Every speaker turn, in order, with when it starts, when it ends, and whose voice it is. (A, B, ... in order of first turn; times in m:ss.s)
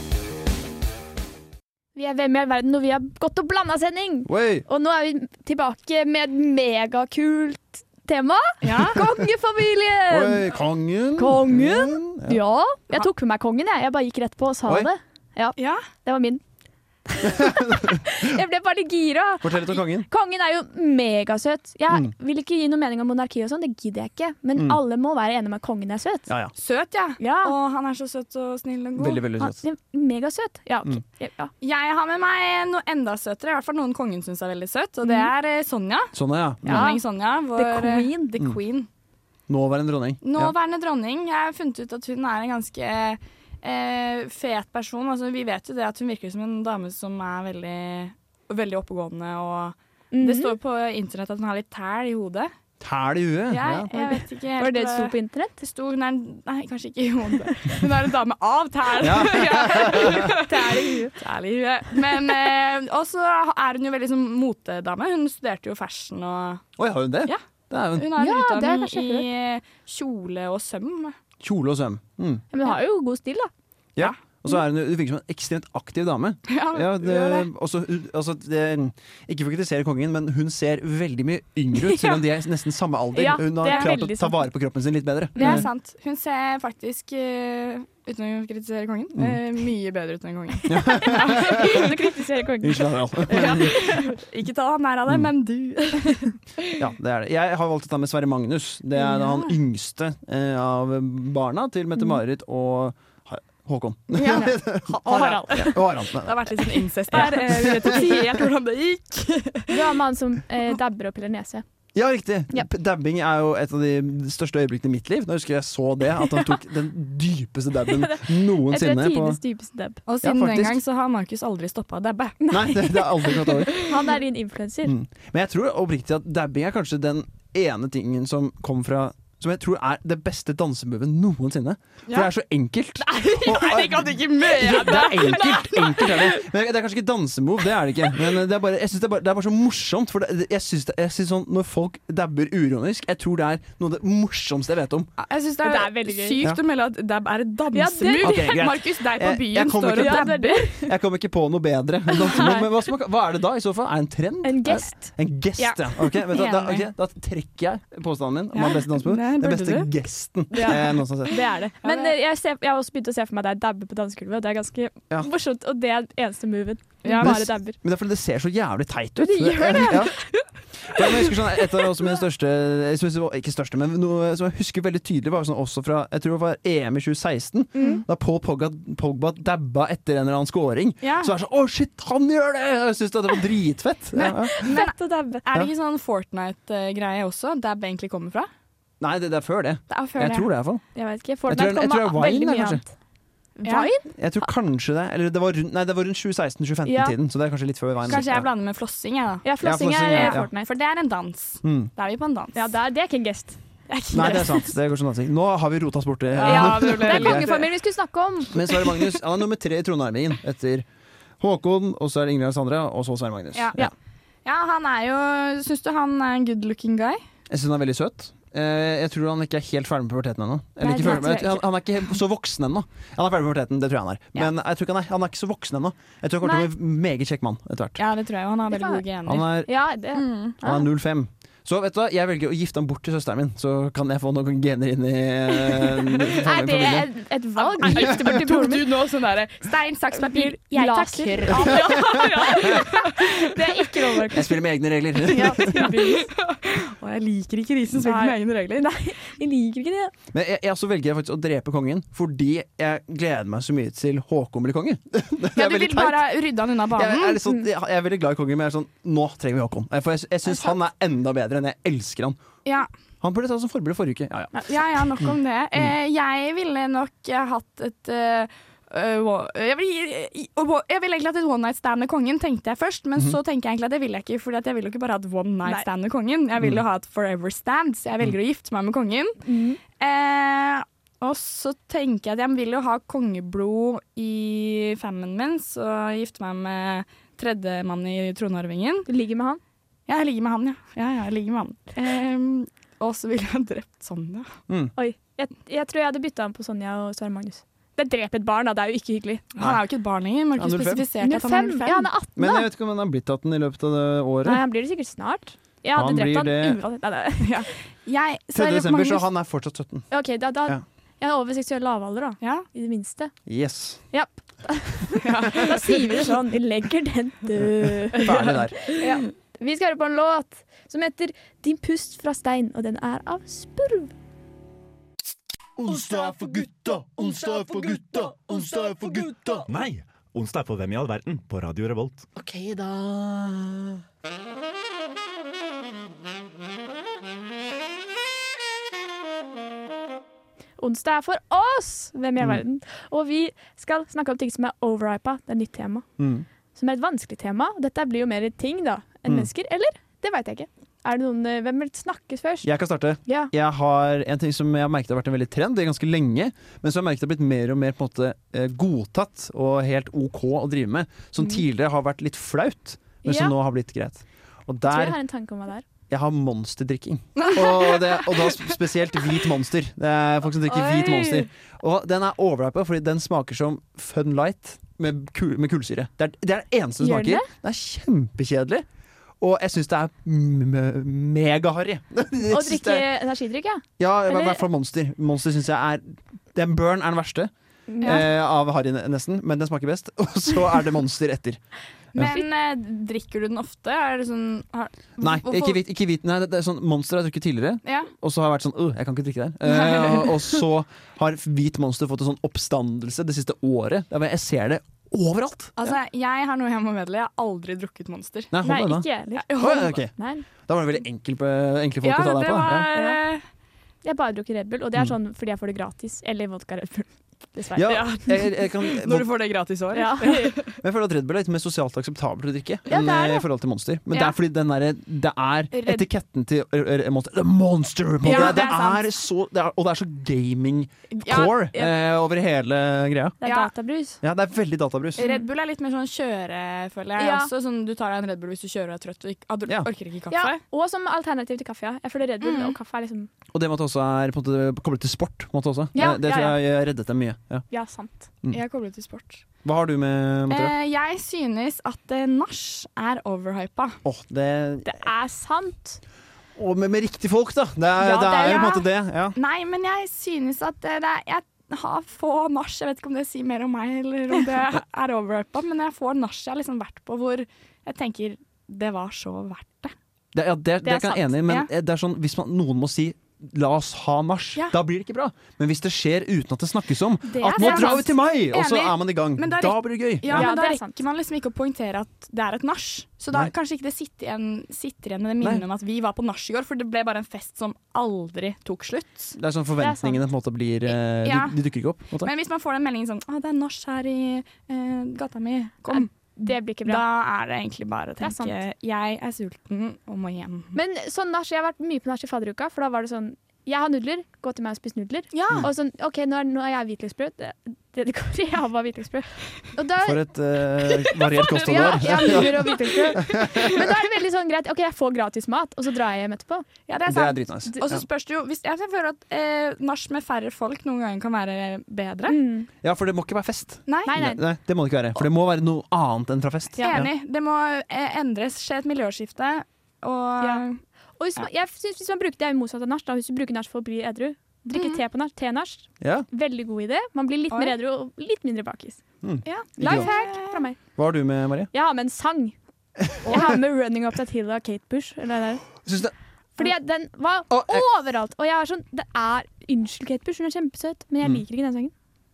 0:02.0-0:10.5 A
0:04.3-0:04.6 B
0:08.6-0:09.0 C
0:10.1-0:12.4 B
0:11.2-0:16.4 A
0:15.6-0:15.9 C
0:17.1-0:26.3 A
0:17.3-0:18.0 B
0:19.4-0:20.1 B
0:26.3-0:26.5 B
0:26.6-0:29.2 C
0:27.2-0:27.6 A
0:29.0-0:29.6 B
0:29.4-0:31.5 A
0:31.6-0:38.9 C
0:35.0-0:35.3 A
0:36.1-0:36.9 B
0:36.6-0:37.0 A
0:37.5-0:38.4 A
0:39.5-0:40.5 B
0:40.2-0:52.5 C
0:50.1-0:50.6 A
0:52.8-0:53.9 B
0:53.5-1:06.6 C
0:53.9-0:55.5 A
0:59.0-1:00.3 B
0:59.9-1:01.2 A
1:06.8-1:08.1 B
1:07.9-1:11.2 C
1:08.2-1:09.3 A
1:11.4-1:12.4 B
1:12.5-1:13.5 A
1:14.0-1:25.7 B
1:16.5-1:17.5 C
1:21.9-1:22.1 A
1:23.1-1:24.5 A
1:23.6-1:23.9 C
1:25.4-1:25.7 A
1:25.4-1:31.9 C
1:30.7-1:31.9 B
1:30.8-1:34.1 A
1:32.6-1:33.8 B
1:33.3-1:36.7 C
1:36.8-1:48.3 B
1:39.0-1:39.5 C
1:44.1-1:49.9 C
1:45.1-1:45.7 A
1:47.1-1:48.2 A
1:49.7-1:51.6 A
1:51.9-1:59.4 B
1:57.9-2:00.0 A
2:00.1-2:02.4 C
2:00.2-2:00.8 B
2:02.4-2:05.0 A
2:02.5-2:03.8 B
2:03.7-2:04.0 C
2:04.8-2:25.1 B
2:13.0-2:16.4 C
2:25.2-2:30.7 C
2:25.6-2:26.4 A
2:27.7-2:28.7 A
2:28.2-2:41.4 B
2:29.9-2:30.9 A
2:32.4-2:32.6 A
2:34.4-2:35.1 A
2:35.6-2:36.9 C
2:38.5-2:39.9 C
2:40.5-2:42.2 C
2:40.5-2:47.8 A
2:47.0-2:47.4 C
2:47.2-2:50.2 B
2:49.2-2:50.1 A
2:49.6-2:50.4 C
2:50.9-3:04.7 B
2:51.0-2:51.3 C
2:57.8-2:58.0 A
3:01.0-3:01.3 C
3:04.2-3:08.5 C
3:04.5-3:05.4 A
3:09.0-3:10.8 B
3:09.9-3:10.5 C
3:11.0-3:12.9 A
3:11.5-3:12.8 B
3:13.6-3:14.1 A
3:13.6-3:13.9 C
3:14.2-3:18.5 B
3:16.8-3:17.2 A
3:18.1-3:19.5 C
3:19.4-3:20.7 A
3:19.6-3:20.5 B
3:20.1-3:22.7 C
3:21.6-3:21.9 B
3:22.6-3:23.6 A
3:23.9-3:24.7 C
3:24.1-3:27.5 B
3:26.4-3:27.7 C
3:26.4-3:28.6 A
3:28.5-3:30.9 B
3:31.4-3:33.9 B
3:33.5-3:33.8 C
3:34.4-3:37.2 C
3:37.5-3:48.0 B
3:40.8-3:41.6 A
3:46.4-3:46.7 A
3:48.0-3:49.5 C
3:48.7-3:49.0 A
3:49.3-3:49.7 B
3:49.7-3:50.9 A
3:50.1-3:50.6 C
3:50.6-3:57.1 B
3:56.4-3:58.9 A
3:57.6-4:04.2 C
3:57.9-3:58.2 B
4:00.1-4:04.6 A
4:04.3-4:05.9 B
4:05.2-4:06.3 A
4:05.4-4:08.9 C
4:08.0-4:10.1 A
4:10.3-4:16.3 B
4:15.5-4:17.4 C
4:16.9-4:22.4 B
4:23.2-4:25.9 B
4:24.6-4:49.1 C
4:39.4-4:39.8 A
4:49.1-4:49.6 A
4:50.1-4:54.6 C
4:54.7-4:54.9 B
4:55.0-4:59.5 A
4:59.6-5:02.1 C
5:00.6-5:01.0 B
5:01.2-5:02.7 A
5:02.4-5:04.6 B
5:04.4-5:07.6 A
5:06.0-5:06.8 B
5:07.4-5:09.3 C
5:08.5-5:10.1 B
5:10.1-5:13.3 A
5:12.4-5:12.7 C
5:13.5-5:14.0 B
5:14.1-5:24.1 A
5:15.2-5:16.3 C
5:18.2-5:19.0 B
5:18.2-5:19.2 C
5:25.8-5:29.7 D
5:29.7-5:32.3 E
5:32.4-5:33.6 D
5:40.8-5:46.1 A
5:46.2-5:46.5 B
5:46.8-5:52.7 A
5:52.6-6:05.2 B
5:53.3-5:53.5 A
6:03.2-6:03.6 A
6:04.9-6:05.8 A
6:06.1-6:18.9 B
6:07.4-6:08.6 C
6:10.7-6:11.4 C
6:17.0-6:17.5 A
6:19.4-6:23.1 B
6:22.5-6:24.6 A
6:24.0-6:31.6 B
6:27.9-6:28.2 A
6:32.1-6:35.8 C
6:35.2-6:45.9 B
6:37.8-6:38.1 C
6:39.7-6:40.4 C
6:45.8-6:48.6 C
6:48.5-6:52.9 B
6:48.6-6:50.5 A
6:49.4-6:50.0 C
6:52.0-6:53.4 C
6:52.9-6:53.2 A
6:54.0-6:58.2 A
6:57.8-6:59.3 B
6:57.8-7:00.8 C
6:59.9-7:00.6 A
7:00.8-7:13.4 B
7:02.9-7:03.4 A
7:05.7-7:06.0 C
7:08.2-7:09.1 C
7:08.3-7:08.7 A
7:11.1-7:12.0 C
7:13.4-7:14.2 A
7:13.4-7:13.7 C
7:14.2-7:15.2 B
7:15.2-7:20.6 C
7:15.2-7:15.5 A
7:17.2-7:17.5 A
7:20.3-7:23.3 A
7:22.4-7:22.8 C
7:23.5-7:27.7 B
7:26.0-7:26.6 A
7:27.7-7:28.3 A
7:28.5-7:29.4 C
7:29.6-7:30.7 B
7:30.5-7:34.0 C
7:34.0-7:35.1 B
7:34.8-7:36.0 A
7:36.6-7:39.4 B
7:38.0-7:38.8 A
7:38.0-7:38.8 C
7:39.4-7:49.9 C
7:50.3-8:00.5 B
7:50.8-7:51.3 A
7:57.2-7:58.1 A
7:57.5-8:09.4 C
8:00.3-8:01.0 A
8:09.4-8:12.3 B
8:09.8-8:10.2 A
8:11.2-8:16.1 C
8:15.9-8:17.0 A
8:16.8-8:20.8 C
8:18.2-8:18.6 A
8:20.8-8:30.2 A
8:25.3-8:25.7 C
8:30.0-8:33.8 B
8:30.8-8:36.7 A
8:32.3-8:33.7 C
8:36.9-8:42.4 C
8:37.1-8:38.0 B
8:42.3-8:42.7 A
8:42.8-8:47.1 B
8:43.9-8:44.1 C
8:44.1-8:44.4 A
8:46.8-8:47.0 A
8:46.8-8:50.8 C
8:51.2-8:59.0 A
8:54.7-8:55.0 C
8:56.0-8:56.3 B
8:57.5-8:57.8 C
8:59.2-9:00.1 B
8:59.4-9:00.7 C
8:59.8-9:00.8 A
9:01.0-9:01.7 B
9:01.7-9:02.6 A
9:03.1-9:05.7 A
9:03.3-9:03.5 C
9:05.8-9:06.1 B
9:06.6-9:11.9 A
9:07.5-9:07.8 B